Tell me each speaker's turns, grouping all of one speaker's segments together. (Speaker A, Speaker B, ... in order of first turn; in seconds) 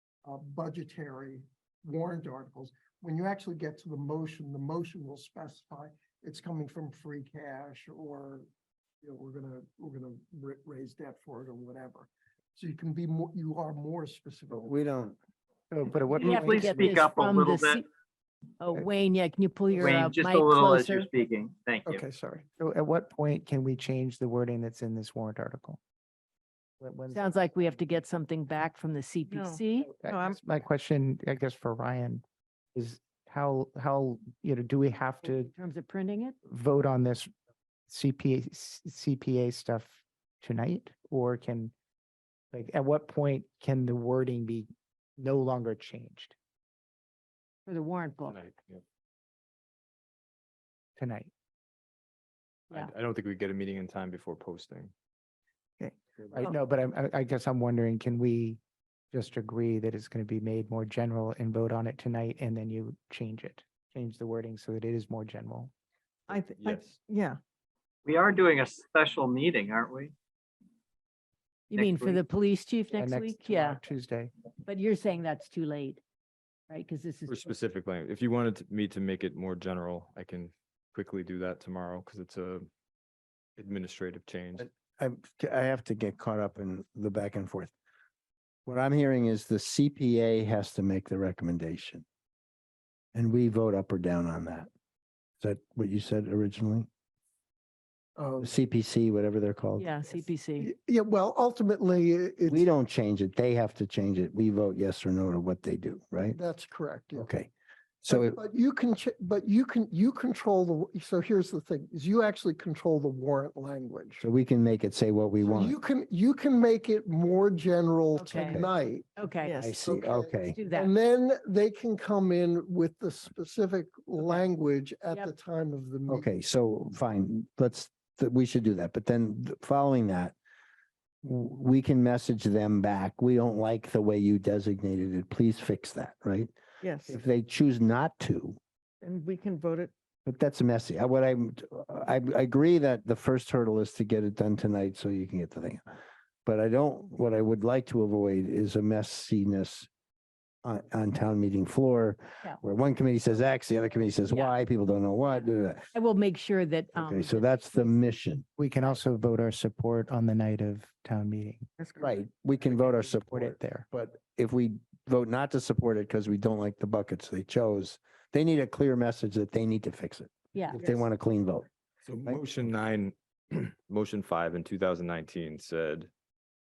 Speaker A: 0.2-8.5, 9.0-14.7, 19.8-20.0, 21.9-22.5, 98.2-98.5, 100.1-102.7, 106.3-107.3, 108.1-114.2, 115.4-119.1, 119.8-126.3
Speaker B: 14.7-15.2, 84.6-87.7, 88.7-92.0, 93.1-94.7, 95.4-96.9, 98.4-99.9, 102.5-106.4, 107.2-107.5, 108.0-108.4, 114.2-115.8, 119.6-120.6, 126.1-130.3, 131.2-136.5, 137.1-138.6, 140.2-145.8, 146.4-149.9, 150.6-155.9, 156.9-158.4, 162.0-171.7
Speaker C: 15.7-16.9, 22.6-25.8, 26.8-27.5, 29.8-32.2, 32.8-35.5, 36.5-37.3, 37.9-41.7, 42.5-46.3, 51.0-51.3, 56.4-58.6, 59.1-65.7, 73.0-74.3, 158.6-161.7, 162.7-163.9
Speaker D: 16.1-17.8, 19.8-22.1, 68.0-70.1, 71.7-72.2
Speaker E: 16.2-17.8, 18.6-21.1, 27.1-29.9, 35.2-36.4, 47.7-48.4, 71.7-73.8, 74.6-76.0, 76.7-77.5, 99.8-100.7, 118.2-118.7, 119.2-119.6, 120.5-120.9, 154.3-154.6, 155.9-158.0, 170.6-170.8
Speaker F: 29.3-30.6, 55.8-56.6, 66.3-67.4, 119.4-119.8, 136.8-137.2, 139.0-139.9, 161.8-162.2, 170.8-171.1
Speaker G: 48.3-48.8, 52.7-54.9, 66.3-67.0, 77.3-82.7, 83.6-84.7, 172.1-176.1